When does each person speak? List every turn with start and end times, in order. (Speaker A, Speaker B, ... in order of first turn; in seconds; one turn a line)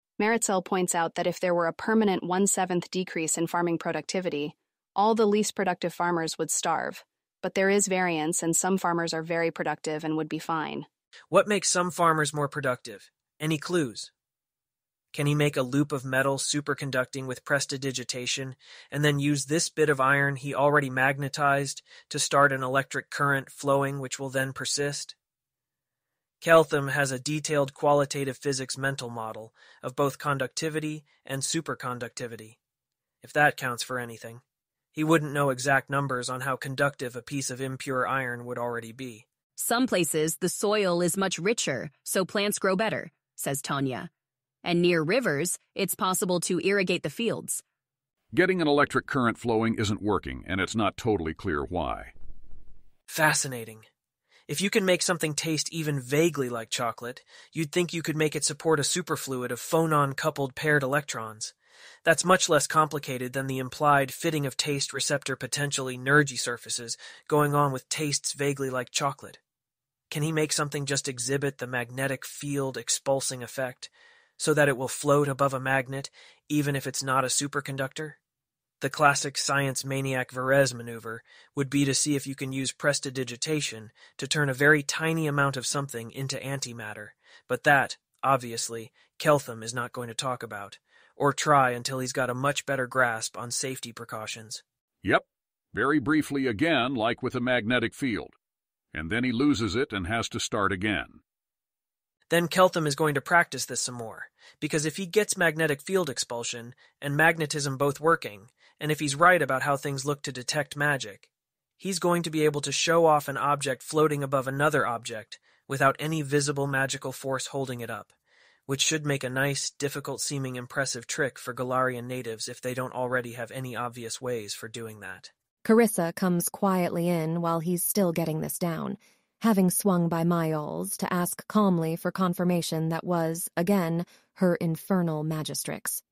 Speaker A: 0.2-10.9
Speaker B: 11.3-14.1
Speaker B: 15.1-25.1
Speaker B: 26.4-32.5
Speaker B: 33.2-34.4
Speaker B: 34.9-39.3
Speaker C: 39.6-44.1
Speaker C: 44.6-47.6
Speaker D: 48.3-52.1
Speaker B: 53.1-53.9
Speaker B: 54.5-69.4
Speaker B: 70.1-78.2
Speaker B: 78.8-94.6
Speaker D: 95.0-98.3
Speaker D: 98.9-101.2
Speaker B: 102.3-111.3
Speaker B: 111.8-118.1
Speaker B: 118.7-125.3
Speaker E: 125.6-136.0